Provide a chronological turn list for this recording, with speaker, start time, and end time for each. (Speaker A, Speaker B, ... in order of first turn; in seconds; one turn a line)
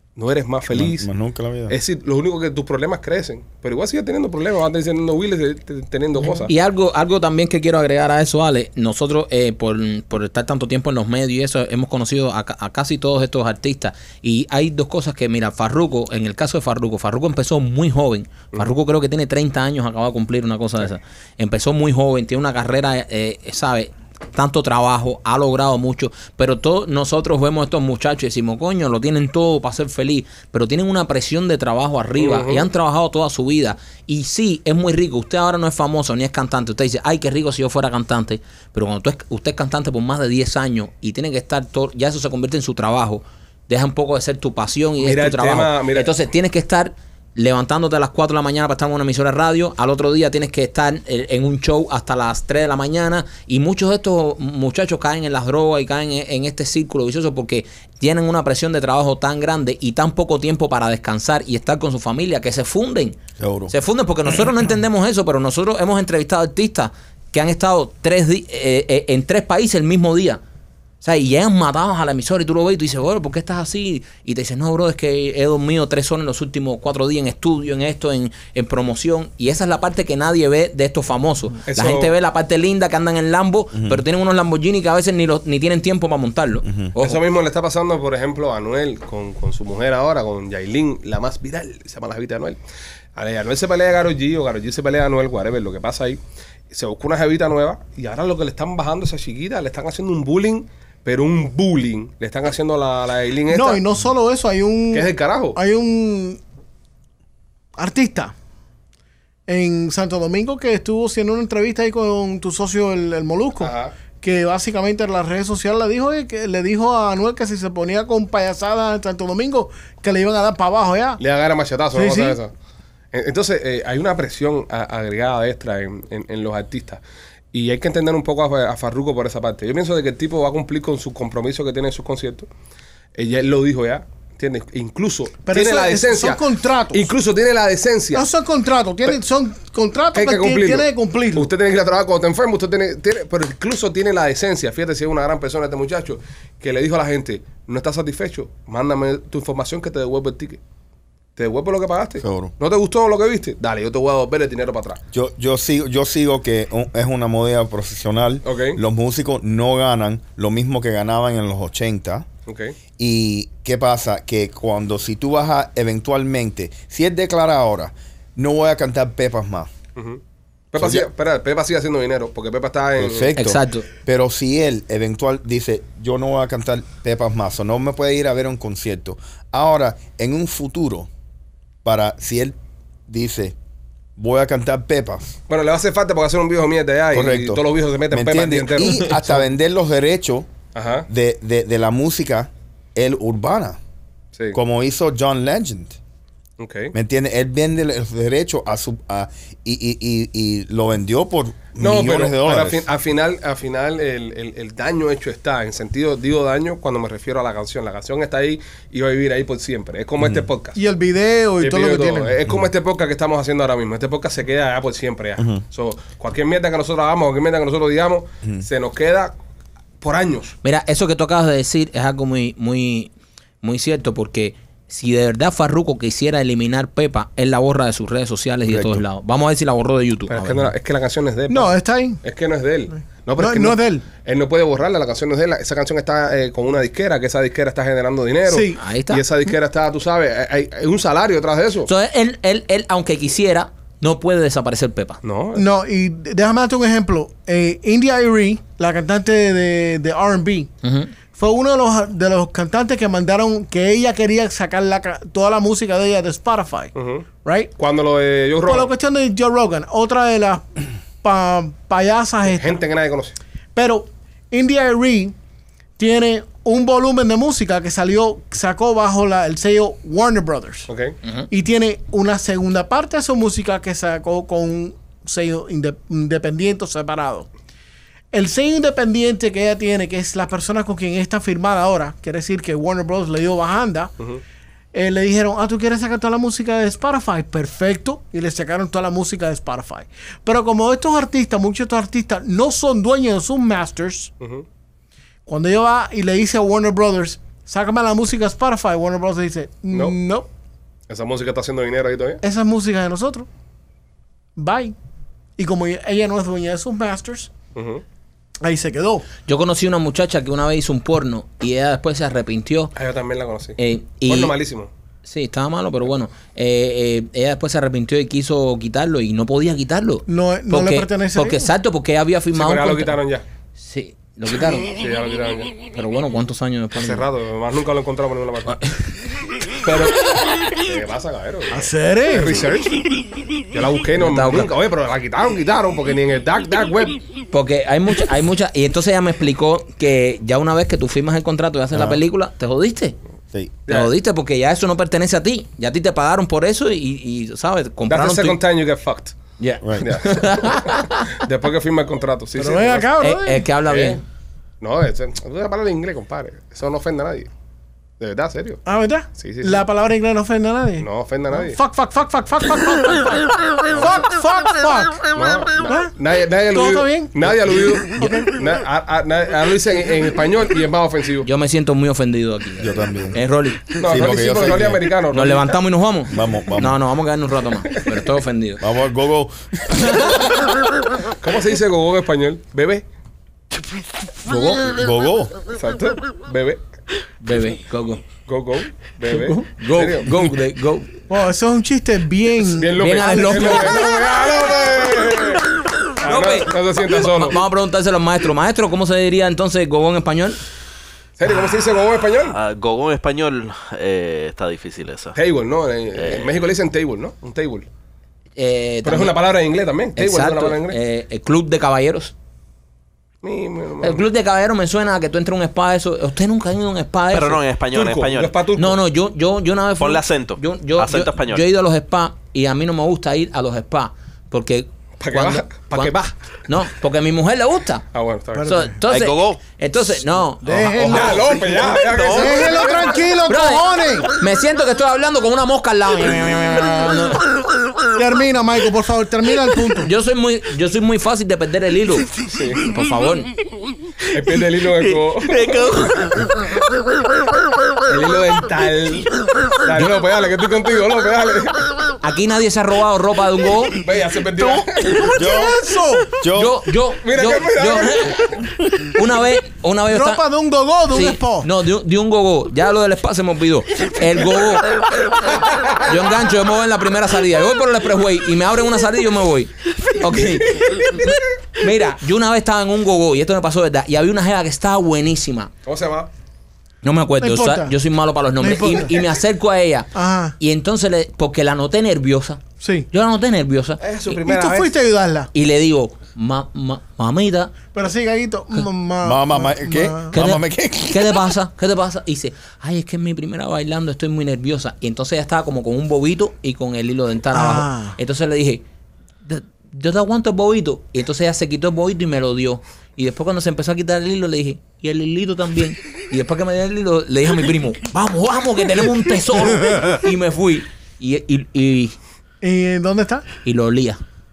Speaker A: 0.2-1.1
Speaker B: 0.7-1.8
Speaker A: 1.7-6.5
Speaker C: 6.2-63.2
Speaker A: 32.2-32.7
Speaker A: 45.0-46.1
Speaker B: 63.4-63.7
Speaker C: 63.7-70.4
Speaker C: 71.0-87.2
Speaker A: 81.7-82.1
Speaker B: 83.8-84.0
Speaker B: 86.7-86.9
Speaker A: 87.0-92.6
Speaker A: 93.2-103.8
Speaker D: 103.5-106.4
Speaker A: 104.9-105.6
Speaker D: 107.8-108.3
Speaker D: 109.5-121.2
Speaker A: 113.6-113.9
Speaker A: 121.2-122.5
Speaker D: 121.9-122.4
Speaker A: 123.1-127.0
Speaker A: 127.5-132.5
Speaker A: 133.2-136.4
Speaker D: 135.4-137.1
Speaker A: 136.9-138.3
Speaker D: 138.1-141.5
Speaker A: 140.1-150.6
Speaker A: 151.4-155.0
Speaker B: 152.2-152.5
Speaker B: 155.1-162.3
Speaker A: 158.4-158.8
Speaker A: 162.5-162.8
Speaker B: 163.0-169.7
Speaker A: 170.0-170.2
Speaker A: 170.7-173.3
Speaker B: 170.8-171.1
Speaker B: 173.0-181.1
Speaker C: 173.4-173.9
Speaker B: 181.8-182.6
Speaker B: 183.1-183.6
Speaker B: 184.2-185.4
Speaker A: 185.5-189.4
Speaker B: 187.1-190.5
Speaker A: 190.8-191.1
Speaker B: 191.1-193.8
Speaker B: 194.5-196.0
Speaker A: 196.6-196.9
Speaker B: 196.9-202.8
Speaker A: 201.8-210.8
Speaker D: 210.8-212.3
Speaker A: 211.6-219.3
Speaker A: 220.0-220.6
Speaker C: 220.6-223.1
Speaker C: 223.6-230.7
Speaker B: 228.7-229.0
Speaker A: 230.3-241.9
Speaker D: 231.5-232.2
Speaker D: 233.4-234.1
Speaker D: 238.5-238.8
Speaker C: 238.8-239.2
Speaker C: 241.9-245.2
Speaker A: 245.2-245.7
Speaker D: 245.6-250.7
Speaker C: 250.8-251.1
Speaker D: 251.3-256.9
Speaker A: 256.9-257.3
Speaker D: 257.4-257.7
Speaker A: 257.8-258.9
Speaker D: 258.6-262.8
Speaker A: 262.5-263.4
Speaker D: 263.8-265.4
Speaker D: 266.0-270.9
Speaker A: 270.9-271.2
Speaker D: 271.5-277.5
Speaker D: 278.3-284.1
Speaker D: 284.9-294.3
Speaker A: 294.4-294.6
Speaker D: 295.5-300.5
Speaker A: 299.9-300.2
Speaker A: 301.1-302.4
Speaker D: 302.4-303.5
Speaker D: 304.6-304.9
Speaker D: 305.6-307.5
Speaker A: 307.8-308.0
Speaker D: 308.6-309.3
Speaker C: 309.5-312.9
Speaker A: 312.9-314.9
Speaker C: 313.8-314.5
Speaker C: 315.2-323.2
Speaker D: 320.3-321.7
Speaker A: 322.5-323.4
Speaker C: 323.8-324.9
Speaker A: 324.9-325.8
Speaker C: 325.8-327.3
Speaker A: 327.0-328.8
Speaker A: 329.8-333.1
Speaker D: 331.7-332.7
Speaker A: 333.7-337.2
Speaker C: 334.2-334.7
Speaker C: 337.5-343.2
Speaker B: 341.9-342.2
Speaker C: 343.9-348.6
Speaker A: 348.1-349.4
Speaker C: 349.6-351.3
Speaker B: 349.8-350.1
Speaker A: 350.0-353.1
Speaker D: 352.6-353.6
Speaker C: 353.2-354.2
Speaker A: 353.9-354.2
Speaker A: 354.8-357.5
Speaker A: 358.2-358.8
Speaker D: 358.9-365.3
Speaker A: 359.3-359.9
Speaker A: 361.0-361.8
Speaker A: 363.9-364.2
Speaker A: 365.3-371.5
Speaker D: 365.9-366.1
Speaker D: 366.7-368.6
Speaker C: 371.4-373.9
Speaker B: 372.8-373.4
Speaker A: 374.0-375.7
Speaker B: 374.0-375.1
Speaker C: 375.3-378.9
Speaker B: 376.3-377.0
Speaker B: 378.8-380.6
Speaker A: 381.4-383.1
Speaker C: 384.5-384.9
Speaker B: 384.9-385.5
Speaker A: 385.7-386.8
Speaker C: 387.4-388.2
Speaker A: 388.5-390.5
Speaker C: 389.3-391.1
Speaker D: 391.3-394.0
Speaker A: 392.6-397.6
Speaker C: 393.0-394.1
Speaker C: 396.2-400.6
Speaker A: 401.4-402.6
Speaker E: 402.5-405.4
Speaker A: 405.4-407.9
Speaker E: 406.2-406.6
Speaker C: 408.6-409.4
Speaker A: 409.0-411.0
Speaker C: 410.2-412.3
Speaker A: 413.4-414.2
Speaker C: 414.0-417.6
Speaker E: 417.3-418.5
Speaker A: 417.9-419.0
Speaker C: 418.8-428.1
Speaker E: 420.0-421.6
Speaker A: 425.2-426.2
Speaker A: 428.1-428.7
Speaker D: 428.6-429.0
Speaker C: 428.7-431.7
Speaker E: 429.1-429.6
Speaker D: 430.6-434.3
Speaker A: 431.0-433.3
Speaker E: 431.9-432.7
Speaker C: 433.5-437.5
Speaker D: 438.2-440.1
Speaker C: 440.0-443.5
Speaker A: 442.5-442.8
Speaker A: 444.3-445.7
Speaker E: 445.0-446.6
Speaker A: 448.1-451.9
Speaker C: 452.2-454.0
Speaker A: 454.0-455.4
Speaker E: 454.6-455.4
Speaker B: 455.4-455.8
Speaker D: 455.4-456.4
Speaker B: 456.4-456.8
Speaker C: 456.5-460.4
Speaker A: 457.2-458.6
Speaker D: 460.1-461.7
Speaker C: 461.1-465.0
Speaker A: 465.5-466.1
Speaker C: 465.9-475.7
Speaker A: 470.7-471.3
Speaker A: 475.9-476.3
Speaker C: 477.0-484.0
Speaker D: 477.4-477.9
Speaker D: 478.6-479.2
Speaker D: 480.1-480.6
Speaker D: 482.8-483.1
Speaker A: 484.0-484.9
Speaker D: 484.4-485.5
Speaker C: 485.5-487.8
Speaker D: 487.9-490.4
Speaker B: 489.2-491.6
Speaker C: 490.3-498.8
Speaker D: 497.5-498.2
Speaker C: 499.4-512.2
Speaker D: 512.6-513.5
Speaker C: 513.6-514.2